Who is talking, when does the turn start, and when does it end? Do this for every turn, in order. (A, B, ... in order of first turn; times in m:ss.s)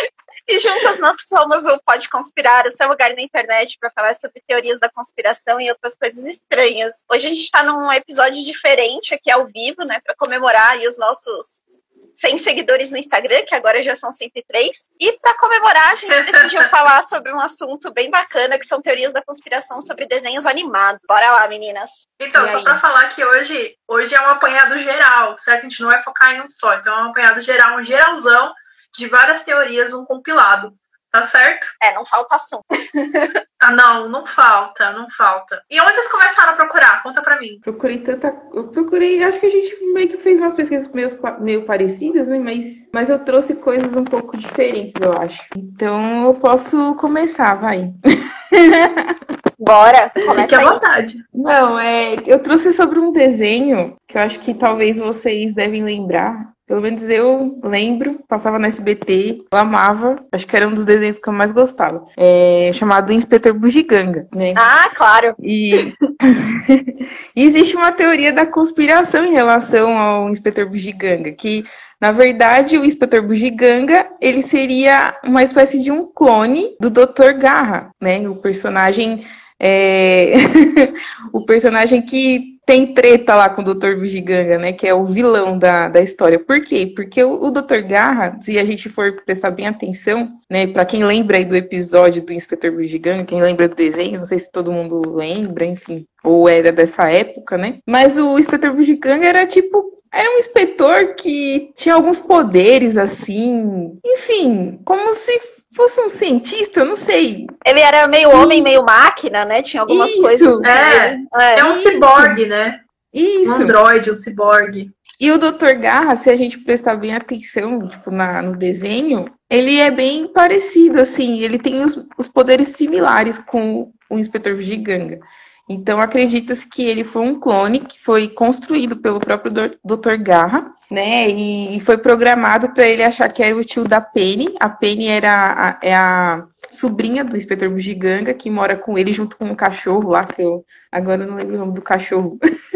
0:00.5-0:11.6 A
0:12.2-0:22.1 A
0:16.1-0:16.6 B
0:22.2-0:31.7 B
0:22.4-0:22.8 C
0:31.8-0:33.3 A
0:33.6-0:37.6 B
0:37.6-0:47.9 C
0:48.5-0:49.1 C
0:49.6-0:50.8 A
0:50.3-0:51.2 B
0:51.3-1:04.7 C
1:04.6-1:05.4 A
1:05.4-1:47.5 C
1:47.6-1:51.7 A
1:48.3-1:48.6 C
1:49.9-1:50.7 C
1:50.6-1:52.8 B
1:51.6-1:52.4 C
1:53.1-1:53.8 C
1:53.4-1:54.9 B
1:55.2-2:22.4 C